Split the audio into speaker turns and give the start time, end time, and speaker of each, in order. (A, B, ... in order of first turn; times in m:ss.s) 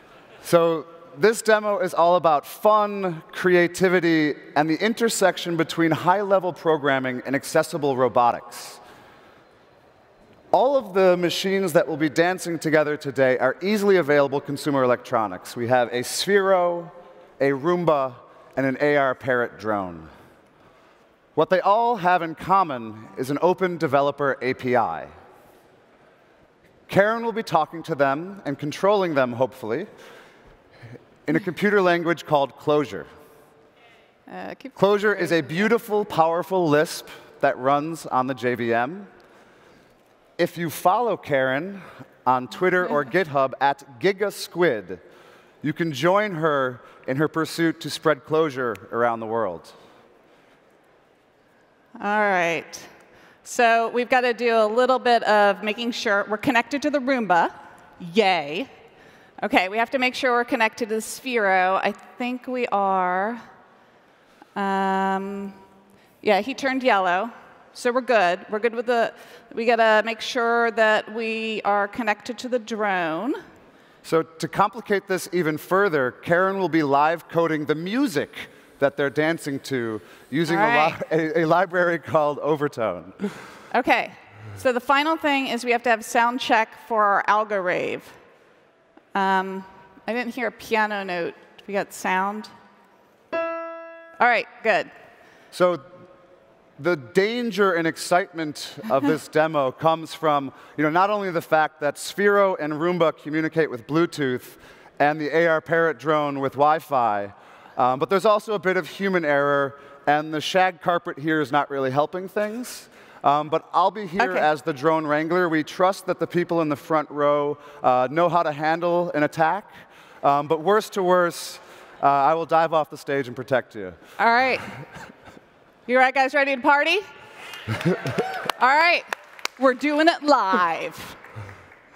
0:00.4-0:08.8 A
0:10.5-0:20.1 A
0:21.4-0:25.1 A
0:26.9-0:29.9 A
0:31.3-0:33.1 A
0:34.3-0:35.6 B
0:34.8-0:39.1 A
0:40.4-0:45.0 A
0:45.6-0:49.7 A
0:52.0-0:52.9 B
0:53.4-0:58.7 B
0:59.4-1:03.4 B
1:04.6-1:05.6 B
1:06.2-1:13.4 B
1:14.0-1:23.2 A
1:20.5-1:21.0 B
1:23.7-1:28.1 B
1:29.1-1:32.5 B
1:34.2-1:34.9 B
1:35.5-1:35.8 A
1:36.8-1:59.7 A
1:54.2-1:54.5 B
2:00.2-2:04.0 A
2:04.2-2:04.7 B
2:05.9-2:07.0 B
2:08.6-2:11.2 B